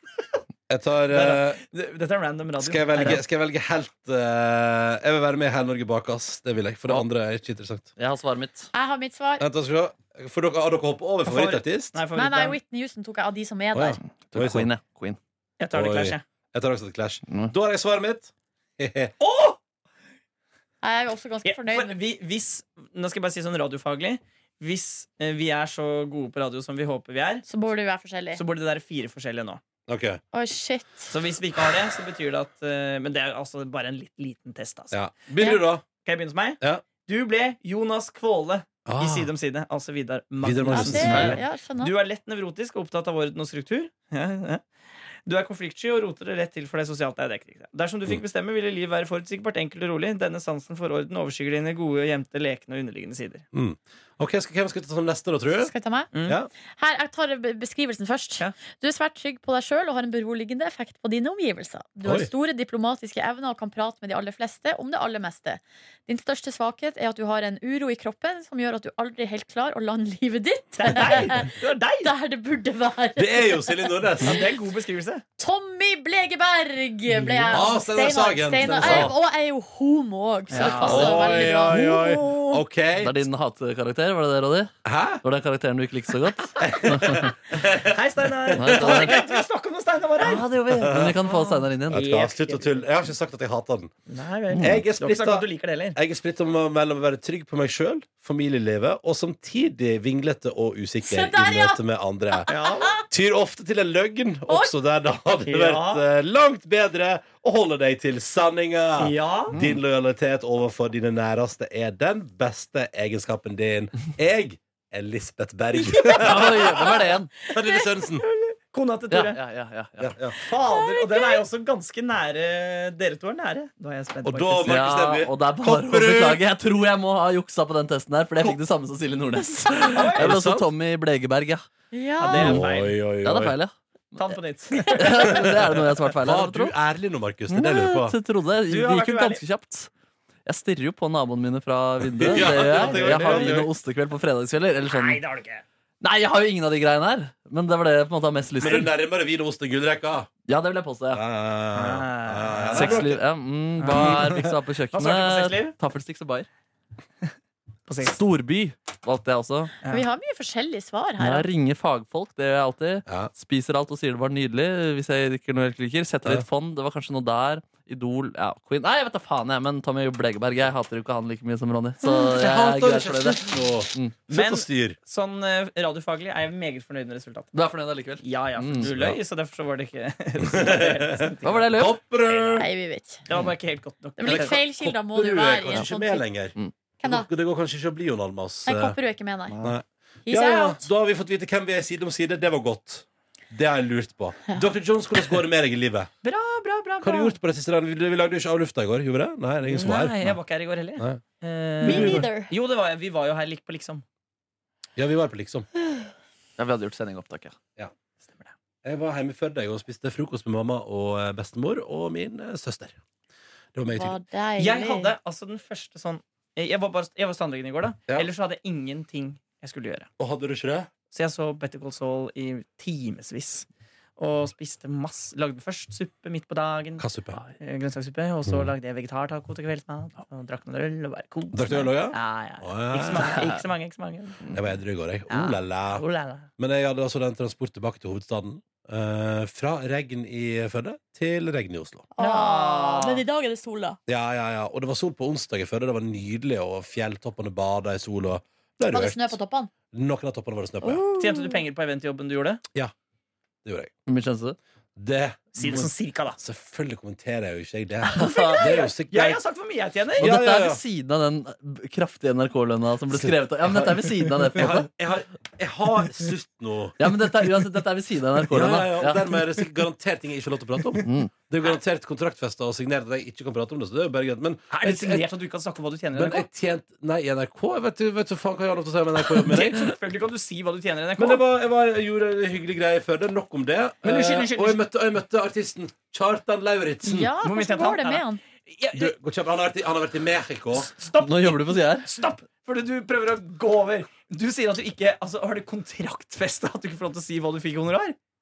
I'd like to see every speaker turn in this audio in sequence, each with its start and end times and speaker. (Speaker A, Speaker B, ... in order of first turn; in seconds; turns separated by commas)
Speaker A: 0.7-1.6, Speaker B: 1.1-3.2, Speaker A: 2.6-7.9, Speaker C: 8.0-8.7, Speaker D: 8.7-9.4, Speaker A: 9.4-12.0, Speaker B: 11.2-12.6, Speaker D: 12.1-14.0, Speaker A: 13.7-14.7, Speaker C: 14.3-15.2, Speaker B: 15.6-16.2, Speaker A: 15.7-19.1, Speaker C: 17.3-17.5, Speaker B: 19.2-19.6, Speaker D: 20.8-21.9, Speaker B: 21.4-27.4, Speaker D: 27.4-28.4, Speaker B: 28.4-29.6, Speaker A: 29.9-30.2, Speaker D: 30.3-31.1, Speaker B: 31.1-35.0, Speaker A: 34.9-35.8, Speaker B: 36.0-44.6, Speaker A: 38.9-39.3, Speaker A: 40.4-41.4, Speaker D: 40.7-41.9, Speaker C: 41.0-41.3, Speaker B: 45.3-53.4, Speaker A: 53.5-55.7, Speaker D: 55.6-56.1, Speaker B: 56.1-56.4, Speaker D: 56.7-74.4, Speaker A: 62.0-62.3, Speaker B: 70.8-72.1, Speaker A: 73.2-74.5, Speaker B: 74.2-75.2, Speaker D: 75.4-82.6, Speaker A: 77.5-79.1, Speaker C: 78.7-79.1, Speaker B: 80.5-81.3, Speaker C: 80.5-81.8, Speaker A: 80.7-83.2, Speaker C: 83.0-87.3, Speaker A: 84.8-85.2, Speaker A: 86.6-89.4, Speaker B: 87.8-92.9, Speaker C: 88.5-89.2, Speaker C: 90.2-92.1, Speaker A: 90.7-91.2, Speaker A: 91.9-93.9, Speaker B: 94.1-96.0, Speaker C: 94.5-94.8, Speaker A: 94.6-118.2, Speaker D: 101.0-101.8, Speaker D: 102.4-103.0, Speaker B: 102.5-102.9, Speaker D: 104.5-104.7, Speaker B: 105.4-106.0, Speaker B: 109.0-109.5, Speaker C: 109.5-109.8, Speaker D: 115.9-116.2, Speaker C: 116.1-117.3, Speaker B: 118.2-119.4, Speaker C: 119.1-120.1, Speaker A: 120.0-120.3, Speaker B: 120.4-124.8, Speaker D: 120.5-121.4, Speaker A: 124.2-126.4, Speaker C: 124.7-131.7, Speaker B: 129.9-130.4, Speaker A: 130.1-130.7, Speaker D: 131.9-132.6, Speaker B: 132.2-133.0, Speaker A: 132.2-133.6, Speaker C: 133.2-134.2, Speaker B: 134.1-135.3, Speaker D: 134.7-135.3, Speaker C: 134.9-136.7, Speaker A: 136.2-138.2, Speaker C: 137.5-139.9, Speaker B: 138.7-139.4, Speaker C: 140.4-145.2, Speaker A: 142.1-143.7, Speaker B: 142.2-143.7, Speaker B: 144.9-145.6, Speaker C: 146.0-148.9, Speaker A: 148.6-150.3, Speaker C: 150.5-151.2, Speaker A: 151.1-153.2, Speaker B: 151.7-153.1, Speaker C: 152.7-156.5, Speaker B: 153.8-154.3, Speaker A: 153.8-154.5, Speaker B: 154.9-155.7, Speaker B: 157.9-158.2, Speaker C: 158.0-159.7, Speaker D: 159.9-161.5, Speaker C: 161.2-174.1, Speaker A: 172.1-175.0, Speaker B: 174.3-177.6, Speaker C: 177.5-178.9, Speaker B: 178.2-182.7, Speaker A: 178.8-179.2, Speaker A: 180.4-182.7, Speaker C: 181.4-182.0, Speaker D: 182.6-183.2, Speaker B: 183.3-184.6, Speaker D: 184.2-186.2, Speaker A: 184.2-189.0, Speaker D: 187.0-187.3, Speaker D: 188.7-189.5, Speaker C: 189.5-189.7, Speaker A: 189.6-196.1, Speaker D: 190.2-190.9, Speaker B: 196.2-197.3, Speaker A: 197.0-200.4, Speaker B: 199.7-204.0, Speaker A: 201.8-202.3, Speaker D: 201.8-202.5, Speaker A: 204.9-205.7, Speaker C: 206.6-207.6, Speaker A: 208.8-213.0, Speaker A: 213.7-214.2, Speaker D: 213.9-215.1, Speaker B: 214.6-220.1, Speaker A: 220.2-220.9, Speaker B: 221.1-227.0, Speaker A: 227.0-227.4, Speaker B: 227.6-234.5, Speaker A: 231.5-233.4, Speaker C: 233.1-233.6, Speaker A: 234.5-236.0, Speaker B: 235.3-236.5, Speaker A: 236.6-242.1, Speaker D: 242.2-244.0, Speaker B: 242.2-243.2, Speaker A: 244.1-249.4, Speaker D: 248.8-249.7, Speaker A: 249.9-251.0, Speaker D: 250.8-251.6, Speaker B: 251.2-252.6, Speaker A: 253.6-253.9, Speaker C: 254.1-254.6, Speaker A: 254.9-259.4, Speaker B: 255.6-256.4, Speaker C: 258.1-258.6, Speaker D: 258.2-258.5, Speaker B: 258.5-260.3, Speaker A: 260.2-260.8, Speaker C: 260.2-264.9, Speaker A: 263.1-267.1, Speaker C: 267.0-269.4, Speaker A: 268.4-275.3, Speaker C: 271.0-271.3, Speaker B: 274.7-276.4, Speaker A: 276.1-279.9, Speaker B: 279.3-281.4, Speaker A: 281.2-287.3, Speaker B: 284.0-284.8, Speaker D: 287.0-288.4, Speaker B: 287.4-289.1, Speaker A: 288.9-290.9, Speaker B: 290.7-298.1, Speaker C: 291.1-292.1